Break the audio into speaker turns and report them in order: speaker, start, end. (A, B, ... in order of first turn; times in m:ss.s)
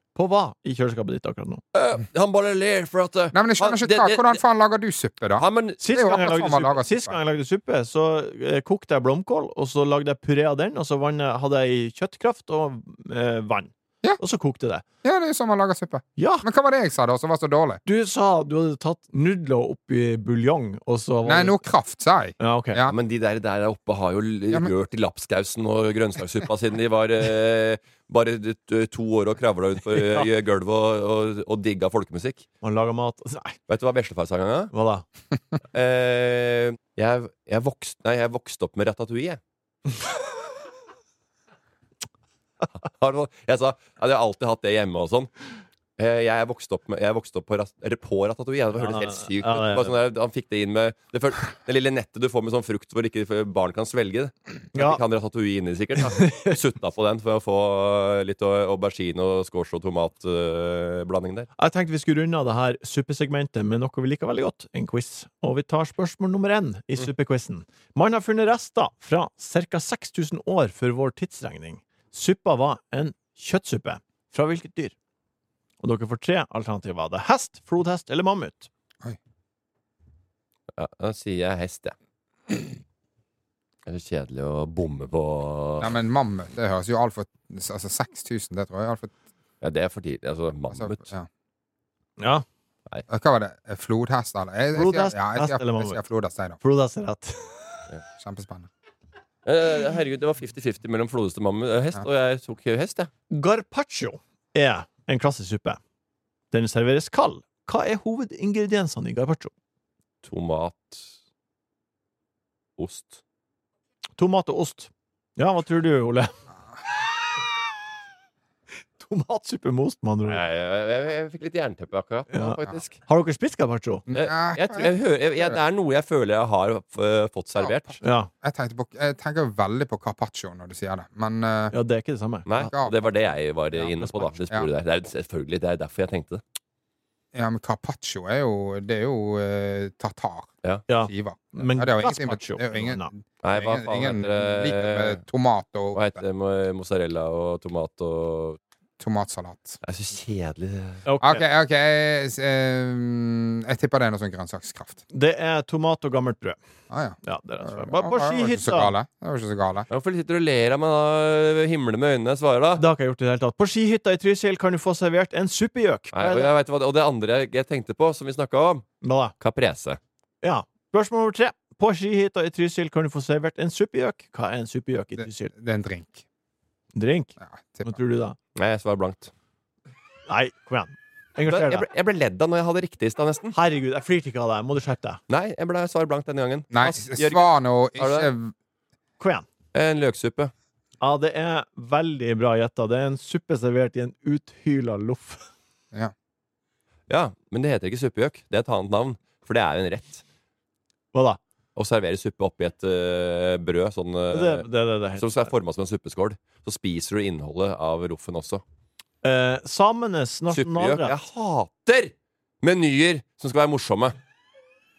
0:00.2-0:01.6 A
0:01.7-0:04.4 B
0:03.3-0:07.2 C
0:05.4-0:05.8 B
0:05.8-0:14.8 A
0:15.0-0:17.8 C
0:16.2-0:16.4 A
0:17.9-0:21.6 A
0:21.2-0:23.0 C
0:22.4-0:22.8 A
0:22.9-0:32.5 B
0:30.0-0:30.2 A
0:32.6-0:33.6 A
0:33.7-0:34.7 B
0:34.7-0:35.0 A
0:35.7-0:39.4 B
0:42.8-0:45.3 B
0:46.0-1:01.5 B
0:48.8-0:50.0 A
0:54.8-0:55.0 A
0:56.0-0:56.6 A
1:01.6-1:15.0 A
1:15.8-1:18.7 A
1:20.8-1:21.9 B
1:23.9-1:26.0 B
1:25.8-1:29.1 C
1:29.6-1:31.0 B
1:30.7-1:31.3 C
1:32.2-1:32.4 A
1:33.1-1:36.6 C
1:34.8-1:36.0 A
1:36.6-1:37.6 A
1:38.2-1:38.7 C
1:39.4-1:43.1 B
1:43.3-1:45.8 A
1:46.5-1:49.5 A
1:50.2-1:51.1 B
1:52.8-1:53.2 B
1:54.2-1:56.3 A
1:59.0-2:00.4 A
2:00.3-2:03.0 B
2:02.3-2:04.0 A
2:04.1-2:05.6 C
2:04.1-2:08.0 B
2:07.6-2:11.7 C
2:08.0-2:08.3 A
2:11.7-2:12.6 A
2:12.5-2:16.4 B
2:12.6-2:13.1 C
2:14.0-2:14.3 A
2:17.3-2:26.2 C
2:20.9-2:23.1 A
2:23.4-2:25.2 B
2:25.9-2:28.6 B
2:29.0-2:29.8 C
2:29.8-2:31.0 B
2:31.1-2:31.4 A
2:31.2-2:35.0 C
2:35.1-2:36.6 A
2:36.9-2:39.9 C
2:37.2-2:38.9 A
2:39.9-2:42.8 B
2:42.8-2:46.5 A
2:46.1-2:48.9 B
2:49.0-2:49.3 A
2:49.4-2:50.0 B
2:50.4-2:55.5 A
2:55.2-2:56.2 C
2:57.0-2:58.4 A
2:57.4-2:58.0 C
2:58.6-2:59.3 B
3:00.3-3:01.8 A
3:01.5-3:03.6 B
3:03.5-3:05.2 A
3:05.3-3:07.4 B
3:06.7-3:08.5 C
3:08.0-3:08.3 B
3:09.2-3:09.5 A
3:09.7-3:10.5 B
3:11.0-3:15.5 A
3:17.1-3:20.2 B
3:21.1-3:21.4 A
3:21.8-3:28.6 B
3:24.3-3:25.5 A
3:29.2-3:31.2 A
3:30.5-3:34.2 B